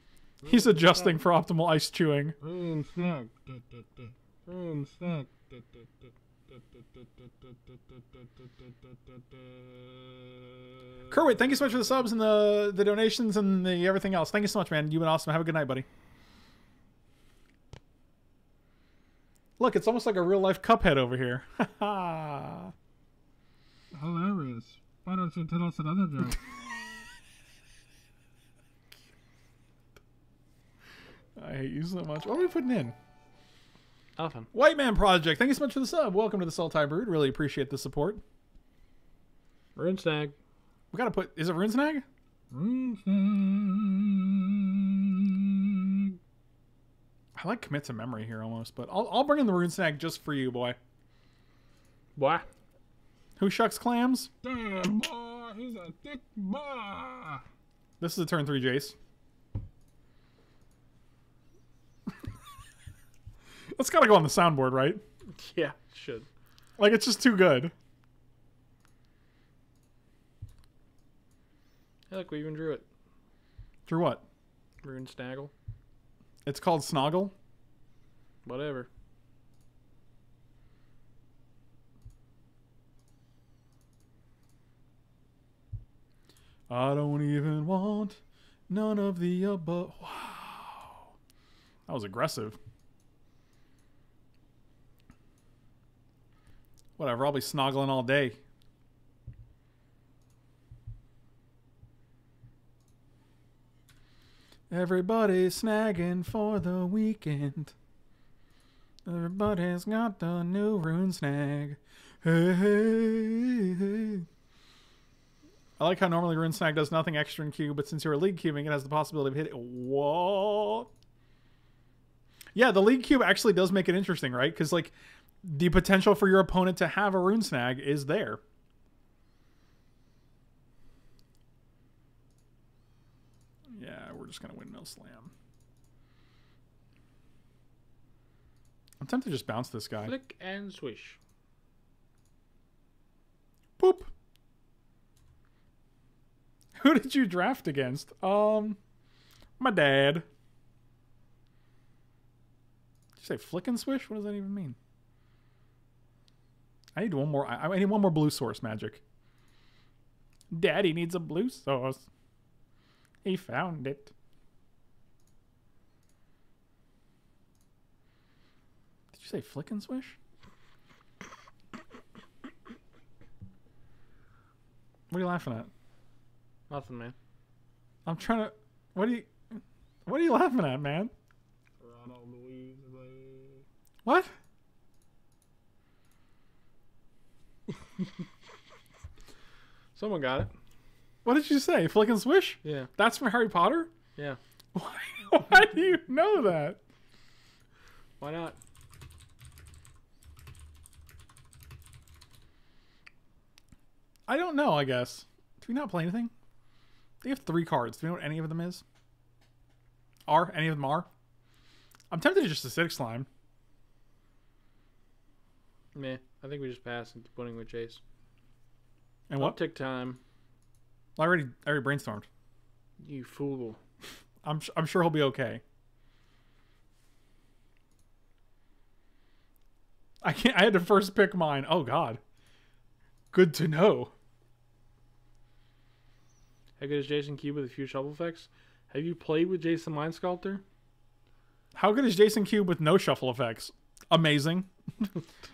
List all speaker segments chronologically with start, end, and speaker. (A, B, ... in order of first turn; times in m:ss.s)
0:00.4-0:02.4 A
0:00.5-0:01.1 B
0:02.4-0:11.1 B
0:11.1-0:15.8 A
0:19.6-0:22.7 A
0:23.9-0:26.5 B
0:31.4-0:32.9 A
0:34.2-0:34.5 C
0:34.5-0:38.2 A
0:39.8-0:40.4 C
0:40.9-0:42.0 A
0:42.5-0:46.2 B
0:47.4-0:50.8 A
0:52.2-0:52.5 C
0:53.4-0:54.3 A
0:54.4-0:57.4 B
0:58.0-0:59.0 A
1:03.7-1:05.0 A
1:05.3-1:06.3 C
1:06.8-1:07.7 A
1:12.1-1:12.8 C
1:13.9-1:14.2 A
1:14.8-1:15.5 C
1:16.4-1:17.3 A
1:18.4-1:18.9 C
1:26.7-1:31.1 A
1:31.9-1:32.6 A
1:37.0-1:38.4 A
1:44.7-1:47.7 A
1:49.0-1:54.2 A
1:55.8-2:00.9 A
2:02.5-2:08.4 A
2:13.7-2:15.3 A
2:19.0-2:20.1 A
2:20.0-2:21.2 C
2:23.8-2:24.1 A
2:26.7-2:28.8 A
2:29.6-2:30.2 A
2:33.2-2:34.8 A
2:37.0-2:39.0 A
2:40.5-2:42.1 A
2:43.2-2:44.1 A
2:49.1-2:50.2 A
2:55.1-2:55.7 A
2:56.7-2:57.1 C
2:58.0-3:01.1 A
3:01.8-3:03.6 B
3:04.0-3:04.3 A
3:09.9-3:10.5 C
3:11.2-3:13.9 A
3:12.6-3:12.9 C
3:14.7-3:16.8 A
3:18.2-3:18.6 C
3:24.3-3:26.3 A
3:27.2-3:28.8 A
3:30.3-3:31.1 A
3:32.1-3:33.3 A
3:35.9-3:38.0 C
3:39.3-3:39.6 A
3:39.4-3:40.2 C
3:41.2-3:42.3 A
3:43.0-3:43.8 C
3:44.4-3:45.6 A
3:50.2-3:52.2 A
3:53.3-3:54.1 A
3:56.8-4:00.6 C
4:01.7-4:05.1 A